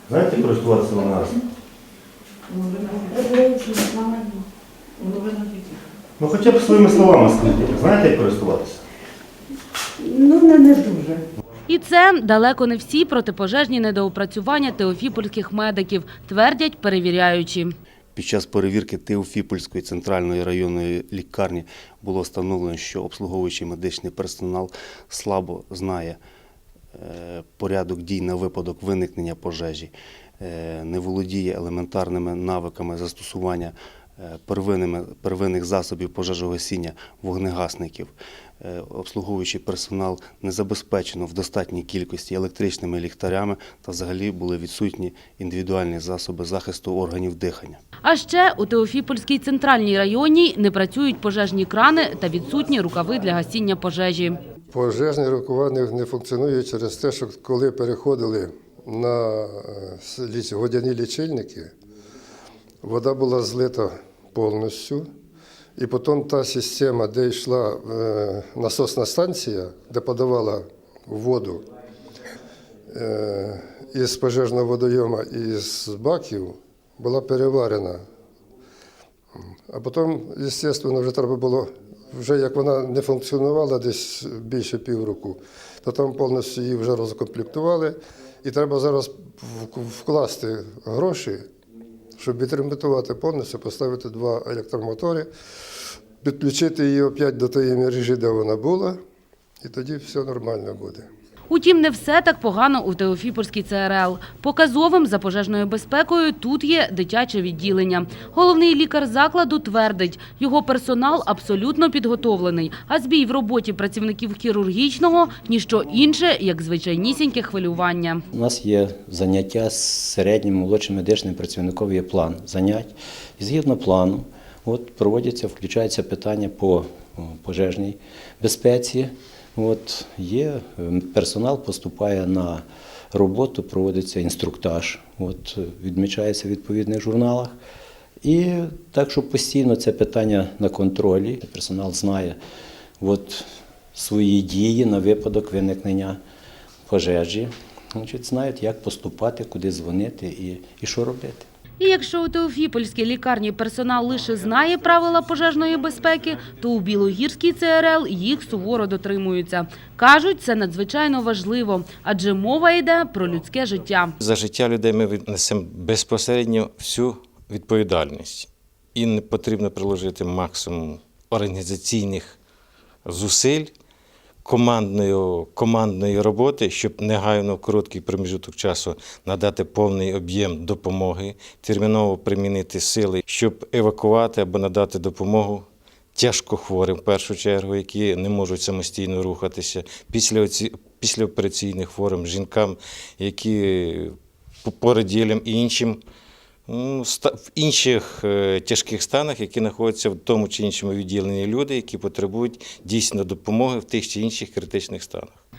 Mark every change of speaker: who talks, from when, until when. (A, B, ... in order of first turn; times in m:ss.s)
0:00.1-0:01.4 A
0:02.6-0:04.4 B
0:05.1-0:05.5 B
0:06.2-0:08.8 A
0:10.0-0:11.2 B
0:11.7-0:17.7 C
0:18.2-0:26.2 A
0:27.0-0:47.8 A
0:48.0-0:54.4 C
0:54.7-1:01.7 D
1:02.8-1:05.1 D
1:05.8-1:11.6 D
1:12.9-1:18.0 D
1:19.7-1:31.4 D
1:32.2-1:35.3 D
1:36.2-1:39.0 D
1:39.6-1:41.0 D
1:41.5-1:58.2 C
1:58.3-2:17.6 E
2:18.2-2:22.4 E
2:23.0-2:26.2 E
2:26.9-2:31.5 E
2:31.8-2:44.1 C
2:44.2-2:52.4 F
2:53.0-2:53.7 F
2:54.4-3:16.0 F
3:16.7-3:25.4 F